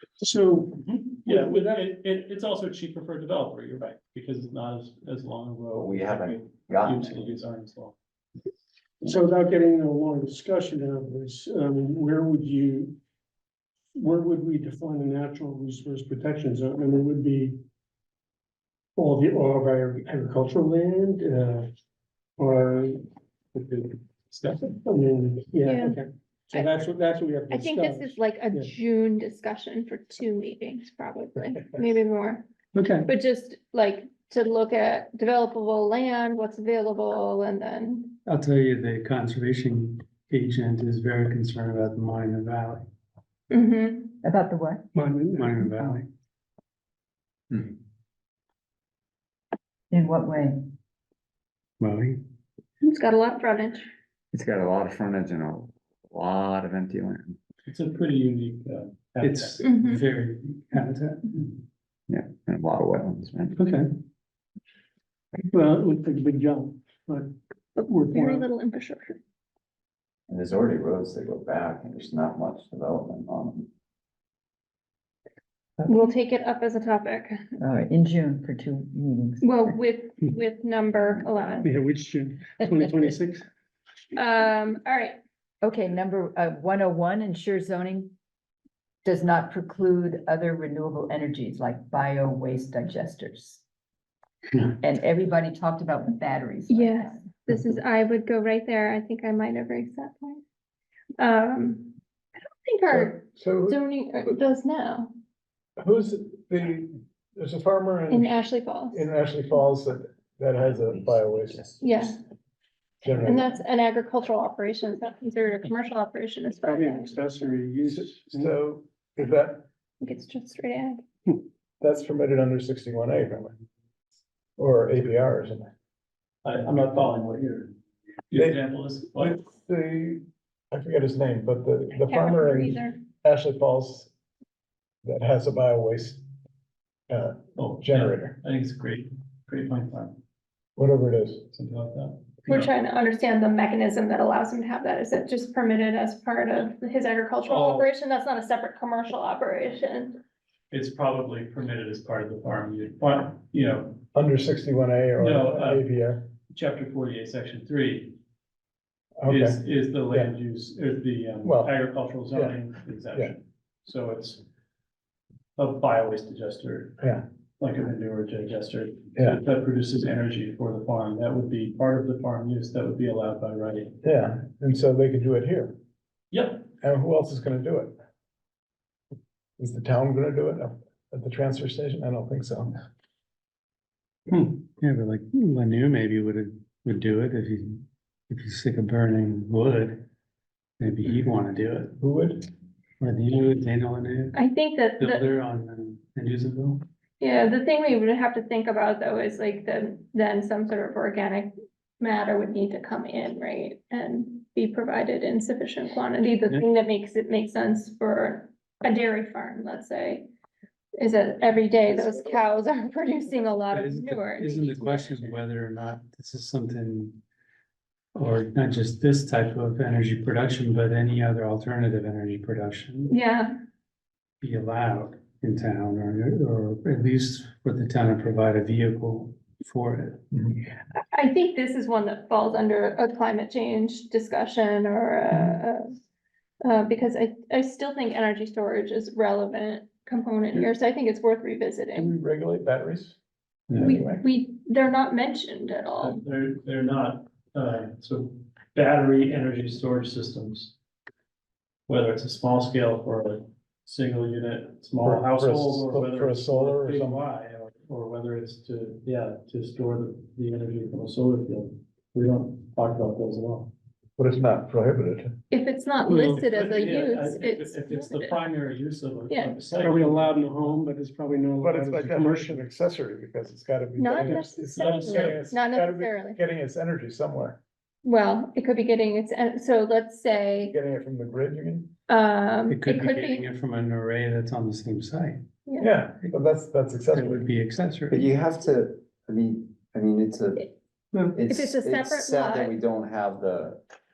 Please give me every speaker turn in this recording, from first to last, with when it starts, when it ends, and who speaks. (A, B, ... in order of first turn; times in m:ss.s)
0:00.2-0:01.8 A
0:01.2-0:08.0 B
0:05.8-0:07.2 C
0:09.0-0:13.0 A
0:14.0-0:17.6 A
0:19.0-0:21.7 A
0:22.4-0:23.0 A
0:23.6-0:23.9 A
0:24.3-0:24.8 B
0:24.8-0:28.7 A
0:25.6-0:26.0 D
0:26.5-0:26.9 D
0:27.5-0:32.5 D
0:32.8-0:33.0 E
0:33.0-0:38.2 D
0:38.2-0:42.8 E
0:43.5-0:44.2 D
0:44.2-0:44.8 F
0:45.0-0:46.0 A
0:45.3-0:46.1 E
0:49.9-0:50.6 F
0:51.8-0:52.2 E
0:52.8-0:53.9 D
0:54.3-0:57.4 C
0:57.7-0:59.6 B
0:59.2-1:01.6 E
0:59.6-1:00.0 D
1:02.1-1:03.6 C
1:03.6-1:03.9 B
1:05.5-1:07.3 A
1:07.8-1:09.2 D
1:07.8-1:08.4 A
1:10.3-1:13.7 C
1:15.9-1:17.4 D
1:17.6-1:19.6 F
1:19.4-1:21.7 D
1:21.6-1:23.4 A
1:24.1-1:25.2 D
1:25.6-1:28.1 F
1:29.0-1:33.6 F
1:34.8-1:37.3 F
1:36.7-1:40.4 D
1:41.2-1:45.1 D
1:42.9-1:44.3 G
1:45.8-1:48.4 G
1:48.1-1:49.1 D
1:48.9-1:52.2 G
1:50.6-1:51.8 C
1:51.8-1:52.2 D
1:53.0-1:53.5 G
1:53.2-1:57.1 D
1:56.6-1:58.5 A
1:57.8-1:59.7 G
2:00.0-2:01.0 D
2:01.8-2:03.5 G
2:04.6-2:05.7 G
2:06.4-2:07.7 B
2:08.3-2:09.4 B
2:08.3-2:08.6 G
2:09.2-2:14.1 G
2:12.0-2:13.0 D
2:15.0-2:16.2 G
2:17.1-2:18.4 G
2:17.6-2:20.2 B
2:20.8-2:21.4 G
2:21.5-2:22.7 B
2:22.5-2:30.2 D
2:27.5-2:27.9 B
2:30.7-2:34.0 B
2:34.1-2:36.3 G
2:35.2-2:35.9 B
2:36.5-2:38.2 B
2:39.2-2:40.3 G
2:39.3-2:44.4 B
2:41.4-2:41.8 G
2:42.3-2:42.6 G
2:45.6-2:47.0 B
2:47.6-2:53.9 B
2:54.0-2:55.8 G
2:56.3-2:56.7 B
2:56.8-2:58.0 G
2:59.6-3:02.8 G
3:04.3-3:10.0 E
3:10.8-3:11.9 E
3:12.0-3:12.5 G
3:13.0-3:14.4 E
3:14.3-3:15.3 D
3:15.0-3:16.8 E
3:17.2-3:30.3 D
3:31.0-3:35.4 D
3:33.7-3:37.2 E
3:38.2-3:43.1 E
3:43.1-3:43.5 D
3:44.4-3:50.2 E
3:50.3-3:50.6 G
3:51.0-3:56.0 D
3:56.6-4:02.2 D
4:02.0-4:03.2 G
4:03.7-4:04.2 G
4:03.8-4:06.2 D
4:06.0-4:10.7 B
4:11.9-4:23.7 B
4:15.0-4:17.2 G
4:24.2-4:25.3 G
4:25.5-4:28.4 D
4:26.1-4:30.8 B
4:29.3-4:29.7 D
4:29.8-4:32.6 A
4:31.6-4:37.6 G
4:34.0-4:36.4 D
4:34.8-4:35.4 B
4:38.0-4:40.8 D
4:40.7-4:41.9 G
4:42.1-4:43.5 D
4:42.7-4:45.5 E
4:45.7-4:46.0 D
4:45.8-4:47.5 G
4:47.1-4:48.3 E
4:48.1-4:50.7 C
4:51.3-4:53.8 C
4:51.5-4:52.8 D